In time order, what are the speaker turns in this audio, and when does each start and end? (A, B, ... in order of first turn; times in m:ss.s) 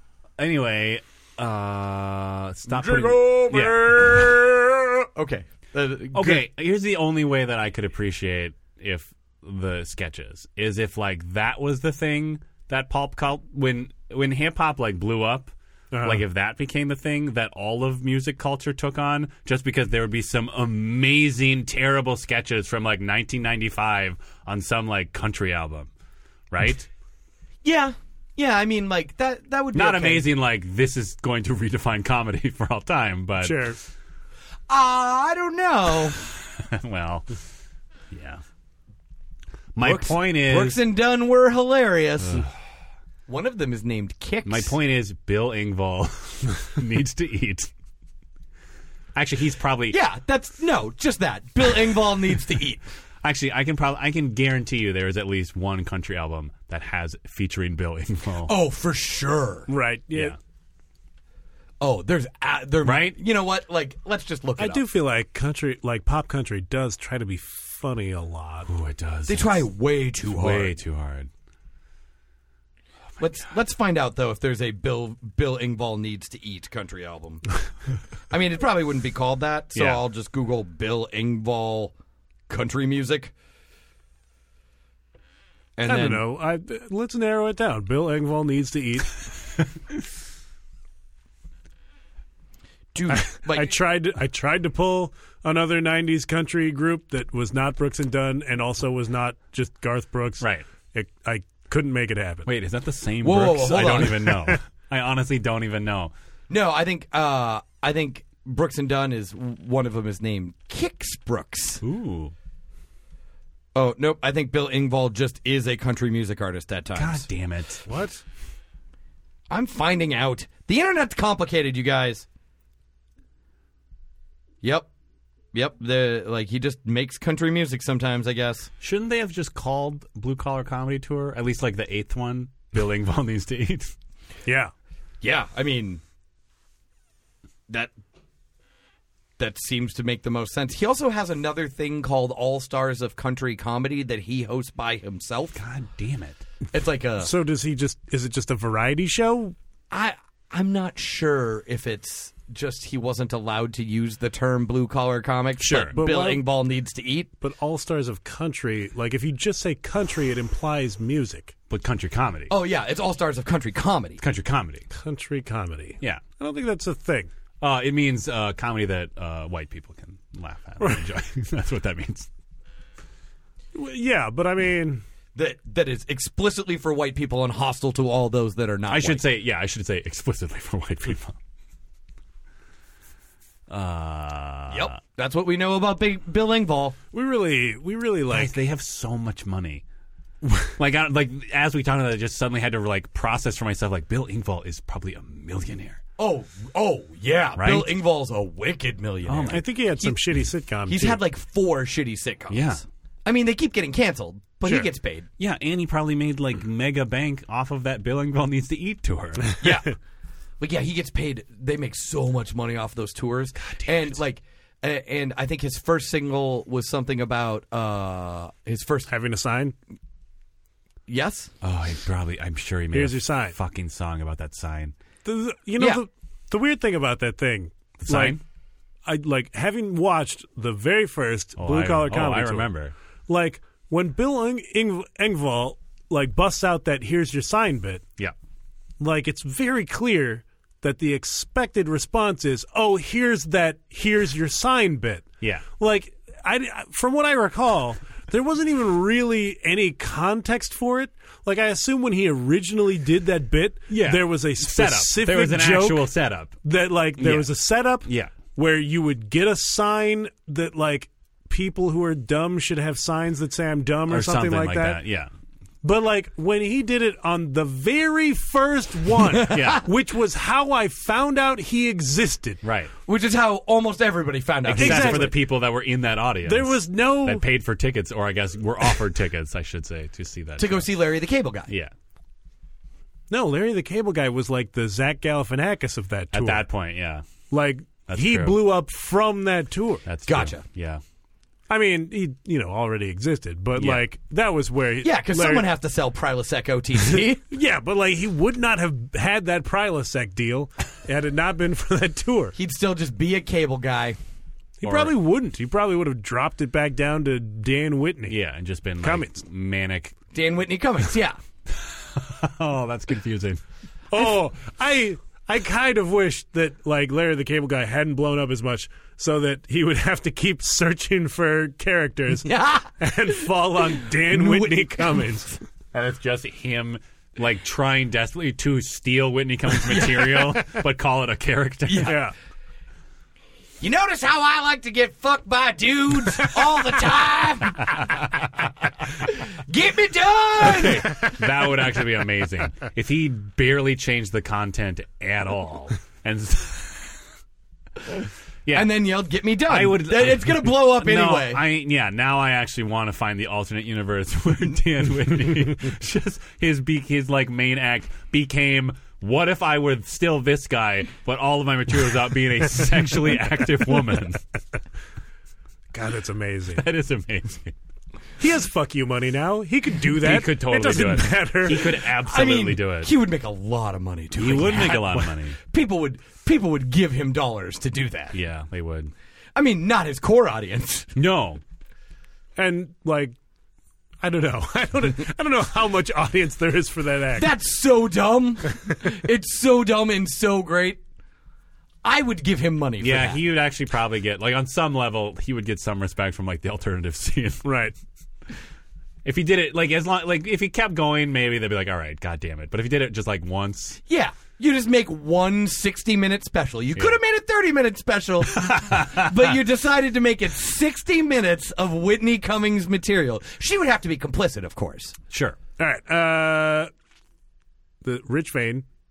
0:00.4-0:04.3 A
0:02.7-0:06.4 B
0:06.1-0:25.9 A
0:15.9-0:16.2 C
0:26.5-0:26.9 A
0:27.6-0:30.3 B
0:29.7-0:33.8 A
0:33.4-0:33.8 C
0:34.7-0:36.2 B
0:36.6-0:37.3 A
0:38.1-0:38.4 A
0:39.8-0:40.8 A
0:39.8-0:42.5 B
0:43.3-0:44.7 B
0:44.4-0:47.7 A
0:49.2-0:50.0 A
0:49.9-0:52.8 B
0:53.2-0:58.5 A
0:58.5-0:59.7 B
0:59.7-1:00.4 C
1:01.8-1:04.8 B
1:02.8-1:03.2 A
1:04.6-1:08.7 C
1:08.7-1:09.7 A
1:09.3-1:10.8 B
1:10.2-1:11.3 A
1:13.2-1:17.4 B
1:18.3-1:21.9 B
1:19.8-1:20.0 A
1:22.5-1:23.3 B
1:25.8-1:26.2 B
1:25.9-1:29.1 C
1:32.9-1:33.8 B
1:33.1-1:42.5 C
1:40.4-1:40.6 A
1:42.5-1:46.1 A
1:43.2-1:44.5 B
1:46.5-1:51.8 B
1:51.8-1:52.3 A
1:53.8-1:57.3 B
1:57.0-1:57.9 A
1:57.9-1:58.2 C
1:59.5-2:02.3 B
2:04.6-2:04.9 B
2:05.5-2:08.7 B
2:08.8-2:13.9 A
2:14.4-2:14.7 C
2:15.2-2:16.0 B
2:19.4-2:25.6 B
2:25.6-2:26.4 A
2:26.7-2:27.3 B
2:27.2-2:29.6 C
2:29.9-2:37.3 B
2:35.6-2:36.0 A
2:35.9-2:36.5 C
2:37.4-2:41.6 C
2:41.7-2:42.5 A
2:42.5-2:44.2 B
2:44.2-2:44.9 A
2:44.9-2:47.3 C
2:47.6-2:52.3 A
2:50.8-2:51.1 C
2:53.7-2:55.0 C
2:55.4-2:59.2 B
2:58.9-3:01.4 A
3:03.7-3:04.9 A
3:04.7-3:07.0 B
3:07.1-3:08.6 C
3:08.3-3:09.8 A
3:10.4-3:10.7 C
3:10.8-3:16.0 A
3:16.2-3:20.2 B
3:17.6-3:18.0 A
3:19.3-3:19.6 A
3:19.5-3:21.2 C
3:20.9-3:25.3 B
3:22.5-3:22.8 A
3:25.4-3:29.6 A
3:29.6-3:30.0 B
3:30.6-3:39.1 B
3:33.6-3:34.1 A
3:39.1-3:39.8 C
3:41.1-3:41.5 B
3:41.6-3:45.0 A
3:42.9-3:43.6 C
3:45.2-3:48.4 C
3:45.8-3:46.0 B
3:48.0-3:48.4 A
3:49.0-3:52.7 C
3:51.6-3:52.9 A
3:53.3-3:58.0 C
3:59.0-4:16.1 C
4:13.9-4:16.6 A
4:16.6-4:25.0 C
4:17.2-4:17.5 A
4:18.0-4:18.4 A
4:24.1-4:25.3 A
4:25.8-4:32.6 C
4:29.4-4:29.8 B
4:29.4-4:29.8 A
4:32.6-4:32.9 A
4:33.1-4:35.3 B
4:34.6-4:40.9 A
4:34.8-4:35.4 C
4:36.5-4:37.4 C
4:40.6-4:41.7 B
4:43.3-4:46.6 C
4:46.3-4:47.3 A
4:47.5-4:50.0 C
4:48.1-4:48.7 A
4:50.1-4:51.0 A
4:50.3-4:50.6 B
4:51.7-4:55.7 C
4:53.8-4:54.0 A
4:55.0-4:57.4 B
4:57.5-5:02.6 C
5:02.6-5:04.2 B
5:04.8-5:08.4 C
5:04.8-5:05.1 A
5:08.3-5:10.2 A
5:09.0-5:09.4 C
5:10.3-5:11.4 B
5:11.8-5:13.6 A
5:14.1-5:25.6 C
5:22.4-5:25.6 B
5:25.9-5:32.2 A
5:29.9-5:30.6 B
5:31.9-5:32.2 B
5:32.0-5:32.3 C
5:33.8-5:38.5 B
5:39.0-5:41.3 B
5:40.6-5:47.1 A
5:48.7-5:49.0 A
5:48.7-5:51.6 B
5:49.7-6:04.4 A
6:05.9-6:06.9 C
6:06.8-6:07.7 A
6:08.4-6:12.1 C
6:10.1-6:13.1 A
6:11.9-6:18.4 B
6:14.4-6:15.6 A
6:14.9-6:15.3 C
6:18.3-6:19.1 A
6:19.6-6:21.1 B
6:21.2-6:21.6 A
6:22.6-6:23.4 C
6:24.2-6:27.5 C
6:27.4-6:31.0 B
6:32.0-6:33.4 B
6:33.0-6:37.7 A
6:37.6-6:38.0 C
6:39.2-6:44.0 A
6:44.1-6:55.2 B
6:48.6-6:49.3 A
6:55.3-6:55.6 A
6:55.8-6:56.9 C
6:58.0-6:58.9 C